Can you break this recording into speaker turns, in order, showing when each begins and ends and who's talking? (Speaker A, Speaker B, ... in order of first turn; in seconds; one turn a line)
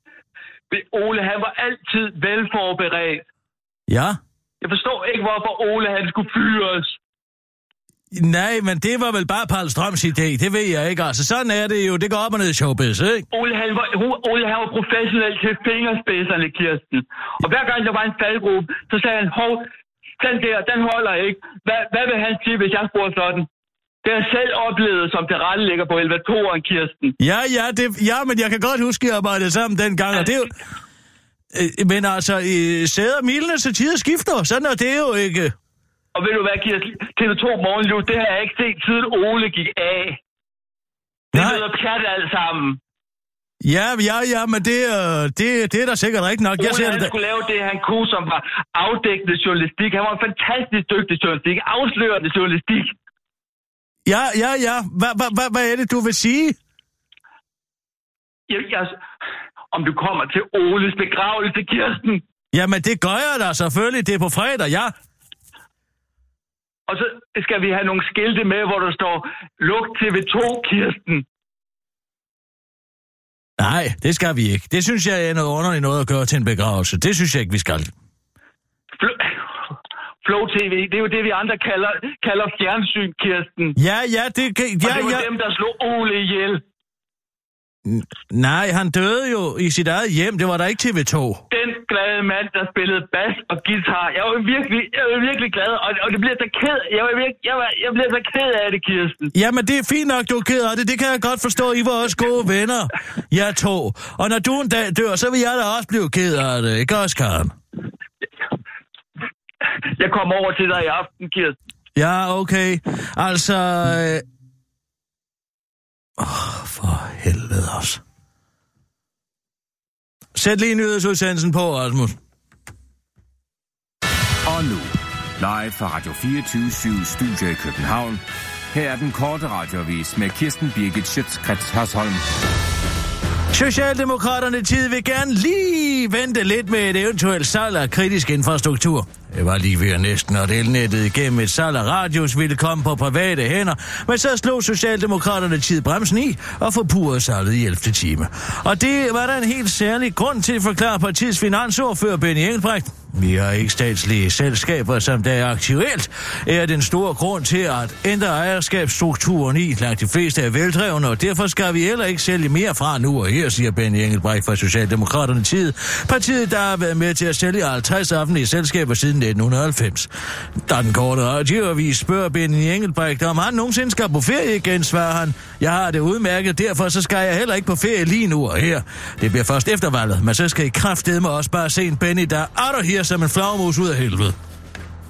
Speaker A: 0.7-3.2
Speaker B: 3.9-4.2
Speaker A: 4.6-7.0
Speaker B: 8.1-13.3
Speaker A: 13.3-23.5
Speaker A: 24.0-27.2
Speaker B: 27.2-30.5
Speaker B: 31.5-35.5
Speaker A: 36.1-40.2
Speaker A: 41.3-42.8
Speaker B: 41.4-41.6
Speaker B: 43.6-47.1
Speaker A: 46.6-53.0
Speaker B: 54.0-56.6
Speaker A: 58.5-59.0
Speaker A: 59.7-62.2
Speaker B: 62.5-64.9
Speaker A: 66.9-71.2
Speaker B: 73.6-77.9
Speaker A: 79.0-79.3
Speaker A: 80.2-83.8
Speaker B: 83.8-85.3
Speaker A: 84.8-86.6
Speaker B: 87.8-91.4
Speaker A: 91.5-99.3
Speaker B: 99.3-107.5
Speaker A: 110.0-111.6
Speaker B: 112.0-114.2
Speaker B: 116.2-118.0
Speaker B: 120.3-122.2
Speaker C: 124.5-128.2
Speaker C: 128.7-132.2
Speaker B: 133.5-170.1
Speaker B: 170.6-184.4